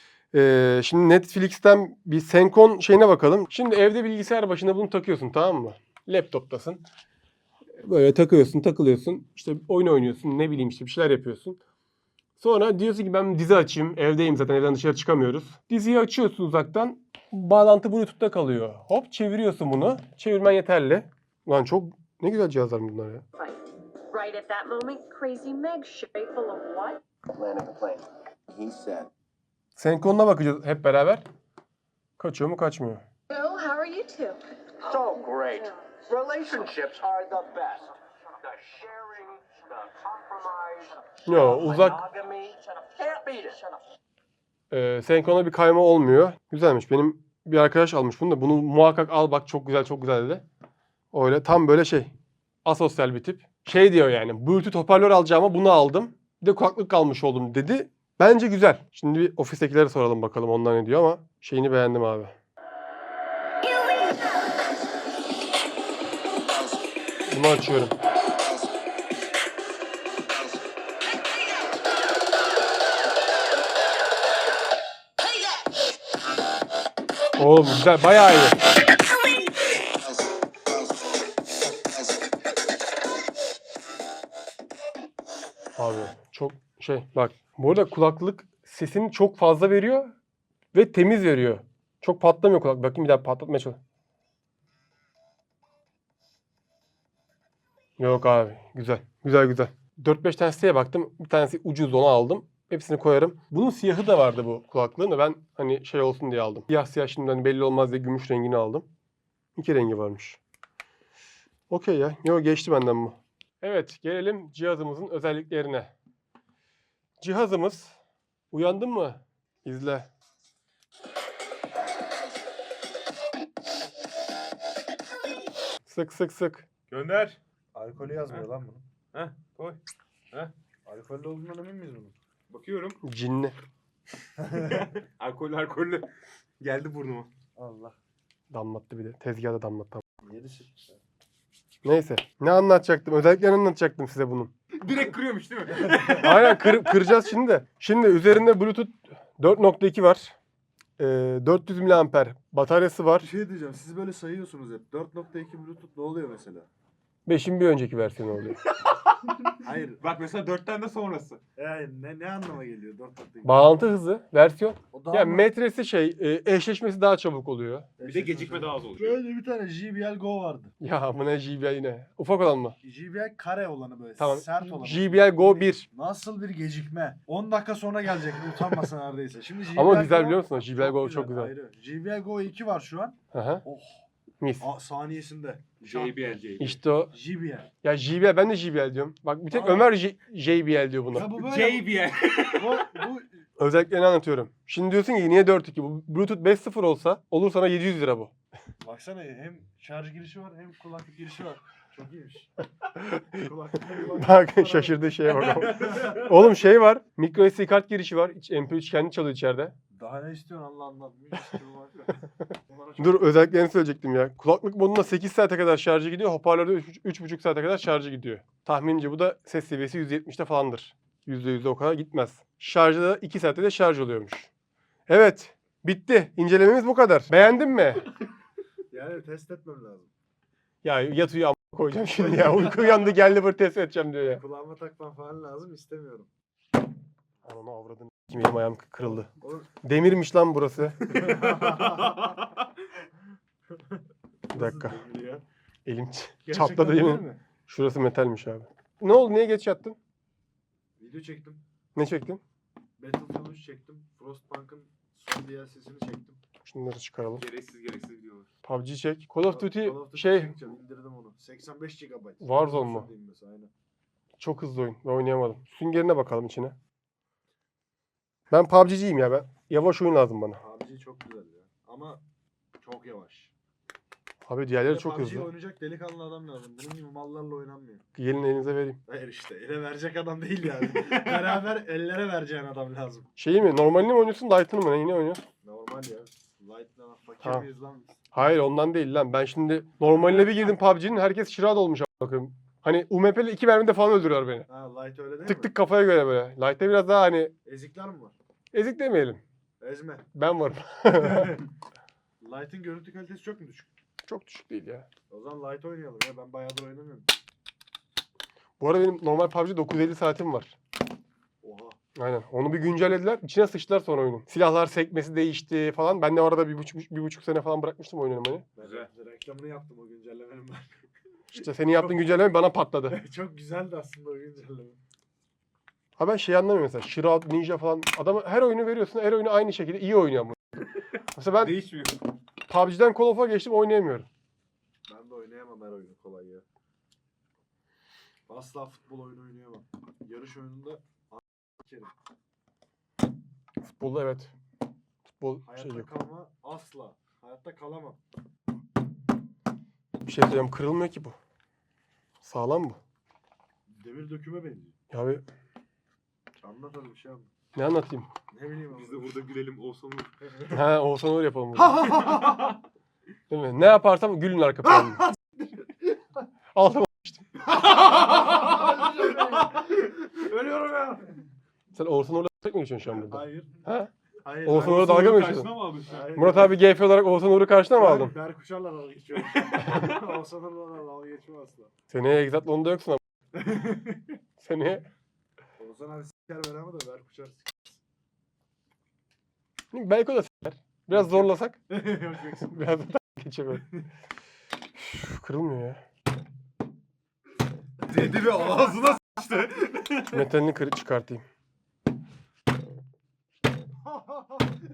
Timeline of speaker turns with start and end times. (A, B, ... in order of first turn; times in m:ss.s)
0:00.3-0:06.8 A
0:07.8-0:11.6 A
0:12.4-0:23.2 A
0:23.4-0:27.0 B
0:27.3-0:29.1 C
0:29.8-0:31.2 A
0:32.2-0:33.0 A
0:33.3-0:34.4 B
0:34.8-0:38.0 C
0:38.5-0:43.7 C
0:41.2-0:42.1 A
0:44.7-0:50.4 A
0:51.1-0:52.1 A
0:52.6-1:02.4 A
1:07.3-1:08.0 A
1:17.4-1:18.6 A
1:25.8-1:30.1 A
1:30.7-1:33.8 A
1:38.0-1:48.9 A
1:49.6-1:50.4 A
1:51.7-1:55.9 A
1:57.2-1:58.0 A
1:58.5-2:00.1 A
2:05.8-2:06.7 A
2:06.9-2:07.4 D
2:07.7-2:08.9 E
2:09.1-2:09.8 D
2:10.9-2:12.2 E
2:12.5-2:13.0 D
2:13.0-2:13.6 A
2:14.5-2:16.1 D
2:16.6-2:17.3 D
2:17.6-2:18.0 E
2:18.5-2:20.0 A
2:20.2-2:21.0 E
2:21.8-2:24.5 A
2:24.8-2:26.7 D
2:26.0-2:30.4 A
2:31.0-2:33.3 A
2:33.2-2:36.7 E
2:37.3-2:38.6 A
2:39.3-2:41.4 D
2:39.6-2:40.0 E
2:41.6-2:43.6 E
2:43.4-2:47.9 A
2:44.9-2:45.5 E
2:48.0-2:50.7 E
2:48.0-2:49.2 D
2:50.8-2:52.8 A
2:52.8-3:04.0 E
2:54.2-2:55.8 A
2:59.7-3:01.5 A
3:03.3-3:03.6 A
3:04.6-3:06.2 E
3:05.8-3:06.8 D
3:06.6-3:07.1 A
3:07.1-3:07.7 E
3:07.8-3:11.4 A
3:09.5-3:09.9 E
3:11.1-3:11.9 E
3:11.4-3:13.0 D
3:12.5-3:13.4 E
3:13.6-3:18.3 A
3:18.8-3:22.5 E
3:23.3-3:26.2 E
3:24.0-3:29.7 A
3:29.9-3:33.4 E
3:33.0-3:44.5 A
3:45.1-3:48.0 A
3:48.9-3:50.1 E
3:50.8-3:54.4 A
3:54.2-3:56.3 E
3:57.4-3:59.3 A
3:59.3-3:59.7 E
3:59.8-4:01.4 A
4:01.1-4:02.2 E
4:02.0-4:02.3 D
4:04.5-4:05.0 A
4:04.5-4:05.4 E
4:05.9-4:10.0 A
4:06.5-4:07.4 E
4:11.0-4:11.6 E
4:12.0-4:12.4 A
4:13.0-4:16.4 E
4:16.6-4:17.4 A
4:17.4-4:18.5 D
4:18.6-4:20.6 A
4:19.4-4:23.7 E
4:22.4-4:23.1 A
4:24.4-4:26.8 A
4:28.5-4:30.6 A
4:30.6-4:32.2 E
4:32.8-4:33.5 E
4:34.4-4:35.5 A
4:34.9-4:38.0 E
4:38.2-4:39.0 A
4:39.1-4:43.3 E
4:43.4-4:45.4 A
4:45.6-4:48.2 E
4:48.3-4:54.7 A
4:54.7-4:55.7 E
4:55.4-4:57.5 A
4:57.6-4:58.4 E
4:58.7-4:59.4 A
4:59.8-5:00.3 E
5:00.4-5:01.6 A
5:01.1-5:01.6 E
5:02.4-5:03.9 E
5:04.3-5:05.1 A
5:05.3-5:07.3 E
5:08.8-5:10.8 A
5:11.6-5:12.0 E
5:12.2-5:18.7 A
5:18.8-5:21.0 E
5:18.8-5:19.1 D
5:21.5-5:23.2 A
5:23.1-5:25.0 E
5:26.2-5:30.6 A
5:31.4-5:31.8 A
5:31.6-5:32.2 D
5:32.7-5:34.3 A
5:35.1-5:36.6 E
5:38.5-5:42.1 E
5:43.8-5:44.5 A
5:45.3-5:46.1 A
5:45.6-5:48.2 E
5:50.3-5:51.4 A
5:52.4-5:53.0 A
5:53.9-5:54.9 E
5:55.1-5:55.4 A
5:56.6-5:57.5 E
5:57.8-5:58.3 A
5:58.5-5:59.3 E
5:58.9-6:00.6 D
6:00.7-6:02.4 A
6:02.0-6:02.7 E
6:03.5-6:05.3 A
6:06.8-6:07.6 A
6:08.2-6:11.4 E
6:11.9-6:14.1 A
6:13.1-6:13.8 E
6:14.4-6:15.2 E
6:14.6-6:15.7 A
6:14.7-6:16.3 D
6:16.1-6:16.8 E
6:16.4-6:18.4 A
6:18.0-6:21.9 E
6:19.8-6:20.2 D
6:22.1-6:23.2 A
6:23.5-6:24.3 E
6:24.6-6:25.1 A
6:25.8-6:28.0 E
6:29.9-6:31.8 A
6:31.1-6:32.7 E
6:32.6-6:33.9 A
6:35.0-6:36.0 A
6:38.0-6:40.2 E
6:40.2-6:41.4 A
6:44.2-6:44.4 E